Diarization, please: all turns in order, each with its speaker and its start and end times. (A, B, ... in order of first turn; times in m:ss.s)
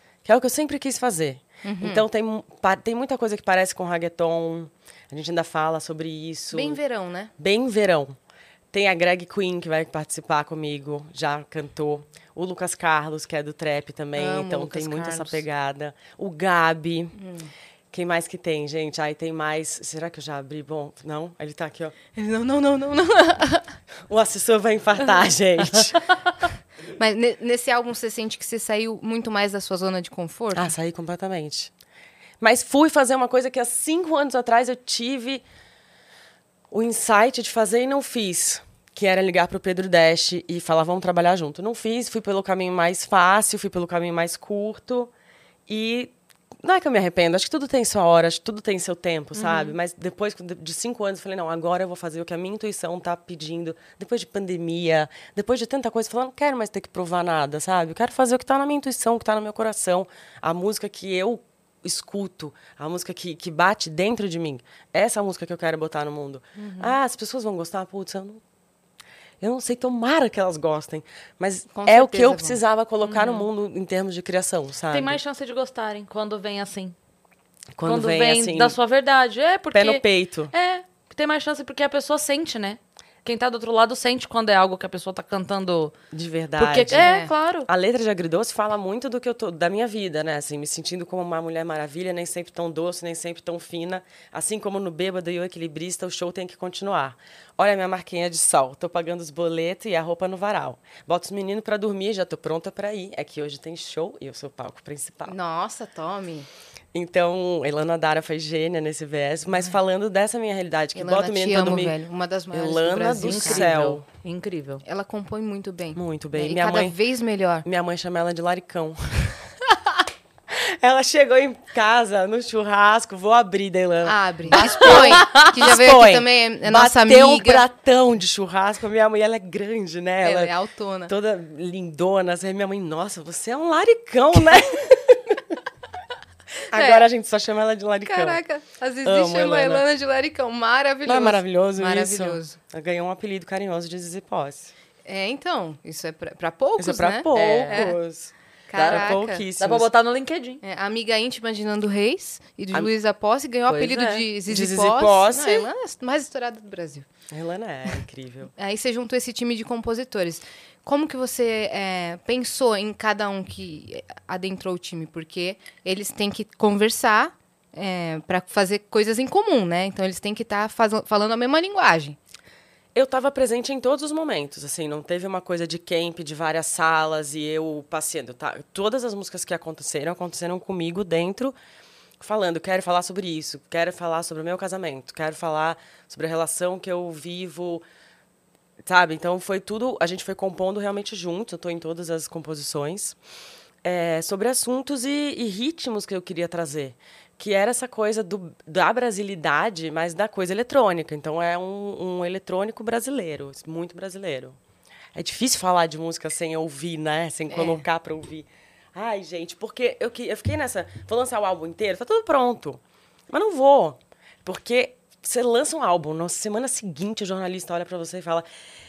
0:00.2-0:06.8 A
0:01.6-0:02.0 B
0:06.5-0:07.3 B
0:07.4-0:08.2 A
0:08.7-0:17.2 A
0:14.2-0:15.4 B
0:17.2-0:17.5 B
0:17.9-0:21.9 A
0:22.1-0:23.7 B
0:24.1-0:26.0 A
0:27.0-0:30.7 B
0:30.5-0:31.7 A
0:32.4-0:35.4 A
0:36.7-0:45.1 A
0:45.7-1:08.4 A
0:49.3-0:49.7 C
1:09.4-1:15.2 A
1:11.7-1:12.6 B
1:13.0-1:13.5 C
1:14.9-1:16.9 C
1:17.8-1:18.8 A
1:17.8-1:25.9 C
1:19.7-1:20.5 A
1:26.1-1:27.1 A
1:26.6-1:27.7 C
1:26.9-1:27.3 B
1:27.6-1:45.3 A
1:45.2-1:46.5 B
1:46.9-1:52.0 A
1:50.9-1:53.7 B
1:52.5-1:54.0 A
1:53.2-1:54.8 C
1:54.8-1:57.6 B
1:56.0-1:57.0 A
1:57.6-1:59.3 A
2:00.5-2:10.5 A
2:04.0-2:07.6 B
2:04.5-2:05.6 C
2:10.2-2:11.1 B
2:11.1-2:15.5 A
2:16.7-2:18.4 A
2:16.7-2:17.0 B
2:18.0-2:22.6 B
2:19.0-2:19.8 A
2:21.0-2:24.7 A
2:25.0-2:28.0 B
2:26.8-2:29.9 A
2:27.3-2:27.9 C
2:28.7-2:29.4 B
2:28.7-2:30.6 C
2:30.6-2:37.0 B
2:33.7-2:34.2 C
2:34.5-2:35.7 A
2:37.3-2:38.5 A
2:38.6-2:52.2 B
2:52.9-3:01.5 A
3:02.2-3:07.8 A
3:08.8-3:13.2 A
3:13.8-3:24.6 A
3:25.1-3:38.4 A
3:27.5-3:27.8 B